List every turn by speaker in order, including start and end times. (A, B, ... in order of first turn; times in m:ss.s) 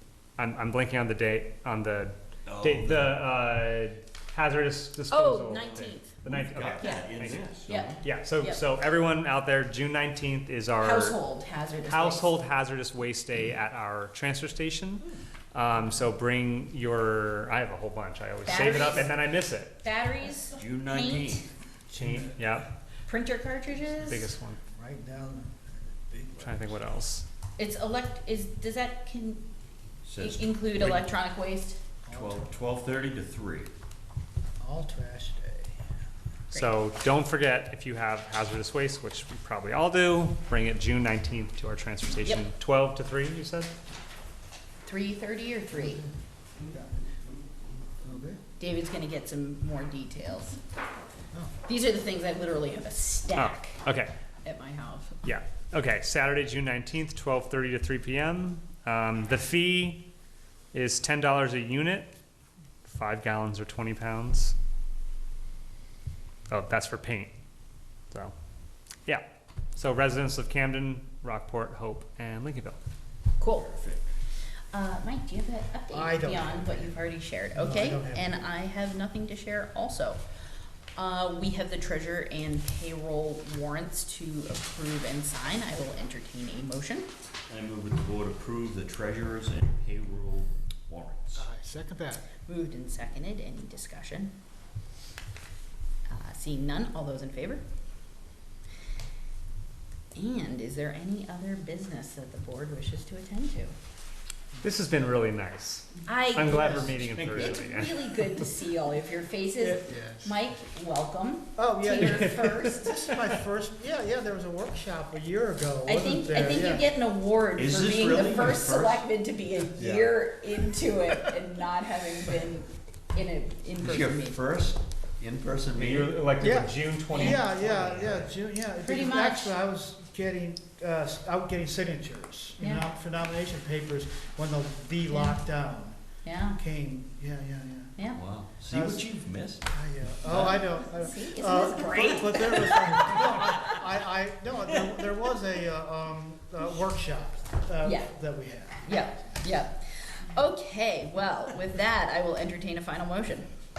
0:00.4-0:07.5 A
0:02.5-0:03.2 B
0:05.1-0:07.1 C
0:06.3-0:08.0 B
0:07.7-0:08.6 C
0:08.0-0:11.2 A
0:10.8-0:12.3 C
0:11.9-0:19.8 A
0:18.5-0:19.2 C
0:19.8-0:21.5 C
0:20.6-0:21.5 B
0:21.9-0:22.4 D
0:22.0-0:22.7 A
0:23.1-0:24.3 C
0:23.9-0:24.6 A
0:24.7-0:26.8 D
0:26.4-0:27.2 A
0:27.6-0:29.4 C
0:30.1-0:31.0 B
0:30.2-0:31.8 C
0:32.1-0:32.5 D
0:32.1-0:33.7 B
0:34.6-0:35.9 D
0:36.5-0:43.7 A
0:44.8-0:46.1 C
0:46.7-0:47.0 D
0:48.0-0:48.4 D
0:48.6-0:50.6 C
0:51.6-0:53.8 C
0:53.4-0:54.1 A
0:54.4-0:55.2 C
0:55.2-1:00.0 A
1:00.7-1:02.1 A
1:02.8-1:04.6 A
1:06.5-1:07.3 A
1:09.8-1:12.8 A
1:13.4-1:13.7 C
1:13.6-1:14.1 B
1:14.7-1:20.2 C
1:15.9-1:18.5 D
1:21.0-1:27.1 C
1:27.5-1:31.5 B
1:31.4-1:32.3 D
1:32.5-1:34.3 C
1:36.1-1:37.6 C
1:40.1-1:43.8 C
1:44.6-1:47.9 A
1:46.1-1:53.1 C
1:46.5-1:47.0 D
1:46.8-1:47.9 B
1:49.6-1:50.4 D
1:51.6-1:56.9 D
1:52.0-1:52.9 A
1:55.9-2:04.4 C
1:57.6-1:59.0 B
1:59.8-2:00.1 B
2:03.8-2:06.2 B
2:05.8-2:08.3 A
2:06.4-2:16.0 D
2:07.1-2:07.4 C
2:08.8-2:09.6 C
2:12.6-2:12.9 C
2:15.1-2:15.4 C
2:16.2-2:16.6 C
2:16.6-2:17.9 D
2:18.0-2:18.2 C
2:18.1-2:19.7 B
2:18.7-2:19.0 D
2:19.7-2:29.6 D
2:20.4-2:23.8 C
2:27.8-2:28.1 C
2:28.8-2:33.4 C